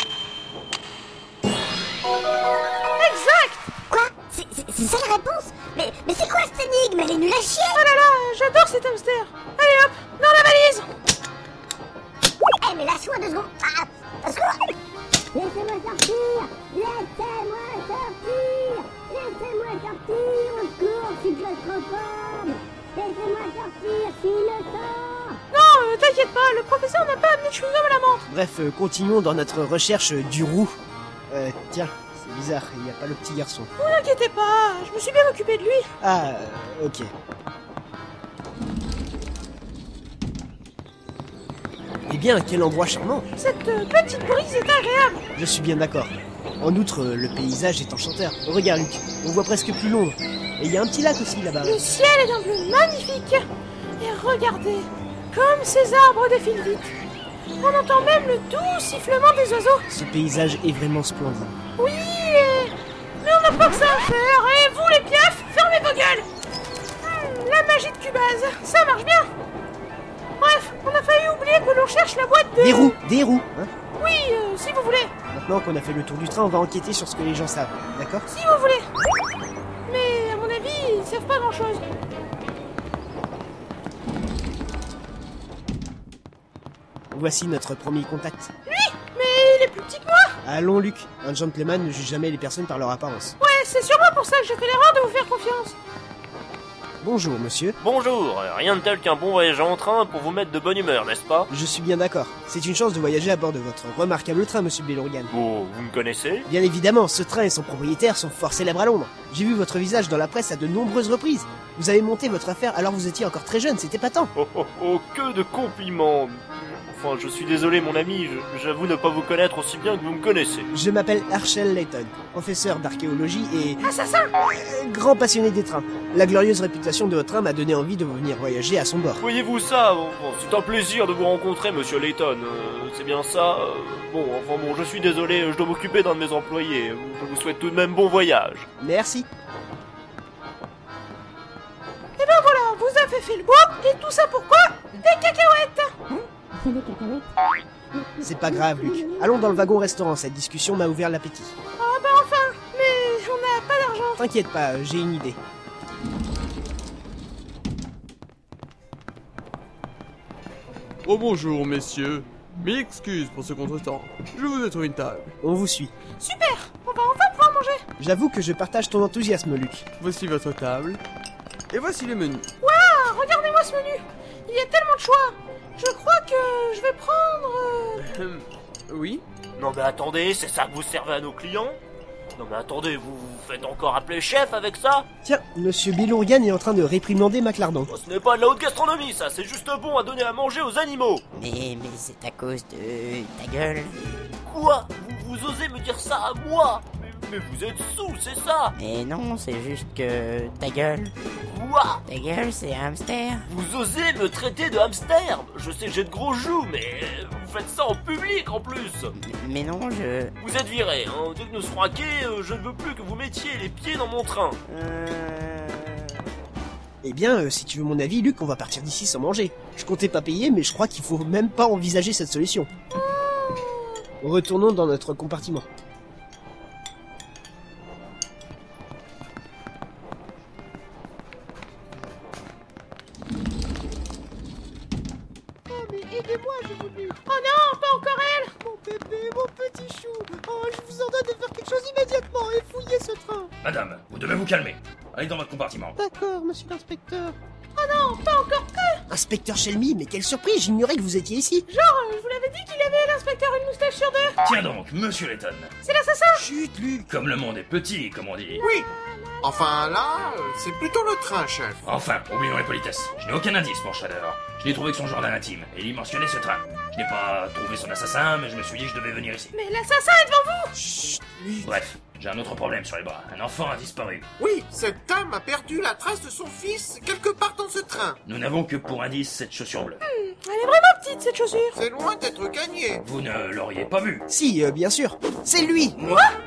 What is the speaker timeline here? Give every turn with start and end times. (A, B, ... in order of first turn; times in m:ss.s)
0:03.0-0:03.7 A
0:03.9-0:07.8 B
0:07.7-0:10.9 A
0:12.6-0:14.5 B
0:15.3-0:25.4 B
0:25.5-0:28.2 A
0:28.3-0:30.8 C
0:31.3-0:33.7 C
0:33.8-0:35.9 A
0:36.0-0:37.1 C
0:42.1-0:43.3 C
0:43.4-0:45.2 A
0:45.4-0:51.8 C
0:51.6-0:53.4 A
0:54.0-0:56.9 A
0:57.6-0:59.8 A
0:59.9-1:01.6 C
1:01.8-1:06.3 A
1:07.0-1:09.3 A
1:10.4-1:12.9 A
1:12.6-1:13.7 C
1:14.0-1:15.1 A
1:15.3-1:18.3 C
1:18.3-1:18.8 A
1:19.9-1:21.8 A
1:27.1-1:28.5 C
1:28.6-1:30.4 A
1:30.4-1:33.4 C
1:33.4-1:35.8 A
1:37.0-1:37.8 C
1:37.8-1:41.5 D
1:41.5-1:45.3 C
1:45.3-1:46.5 D
1:46.5-1:54.3 C
1:54.4-2:00.7 D
2:00.7-2:03.8 C
2:03.8-2:04.3 A
2:04.4-2:09.2 C
2:09.2-2:18.6 D
2:18.8-2:19.3 C
2:22.2-2:25.9 A
2:26.6-2:27.3 B
2:28.2-2:31.5 C
2:28.5-2:29.0 B
2:31.8-2:34.2 A
2:34.2-2:35.4 C
2:41.0-2:45.4 E
2:45.4-2:45.9 C
2:46.2-2:47.8 A
2:48.0-2:49.8 C
2:50.0-2:51.0 E
2:51.7-2:52.5 E
2:52.6-2:58.0 A
2:58.0-2:59.2 E
2:59.6-3:01.8 D
3:02.4-3:05.0 D
3:05.2-3:07.9 C
3:07.9-3:11.2 D
3:11.3-3:14.0 F
3:14.4-3:18.7 D
3:18.7-3:21.1 F
3:21.5-3:22.0 D
3:22.1-3:23.5 F
3:23.5-3:29.1 D
3:29.2-3:30.3 F
3:30.4-3:34.6 D
3:34.7-3:35.9 F
3:37.0-3:42.7 C
3:43.3-3:43.9 A
3:44.2-3:45.7 C
3:55.7-3:57.2 C
3:57.3-3:58.5 A
3:58.6-4:03.5 C
4:03.6-4:05.9 G
4:06.0-4:07.4 C
4:07.7-4:09.0 A
4:09.1-4:11.7 C
4:11.7-4:14.4 A
4:14.4-4:15.7 G
4:15.8-4:16.4 A
4:16.3-4:17.1 C
4:17.1-4:18.6 G
4:18.6-4:18.9 H
4:18.6-4:19.7 A
4:19.4-4:21.9 H
4:21.8-4:29.5 G
4:29.5-4:30.8 A
4:30.7-4:31.8 C
4:31.6-4:34.2 G
4:34.4-4:38.2 H
4:38.2-4:40.0 G
4:40.0-4:41.8 A
4:41.7-4:43.0 H
4:43.0-4:44.2 G
4:44.3-4:46.0 C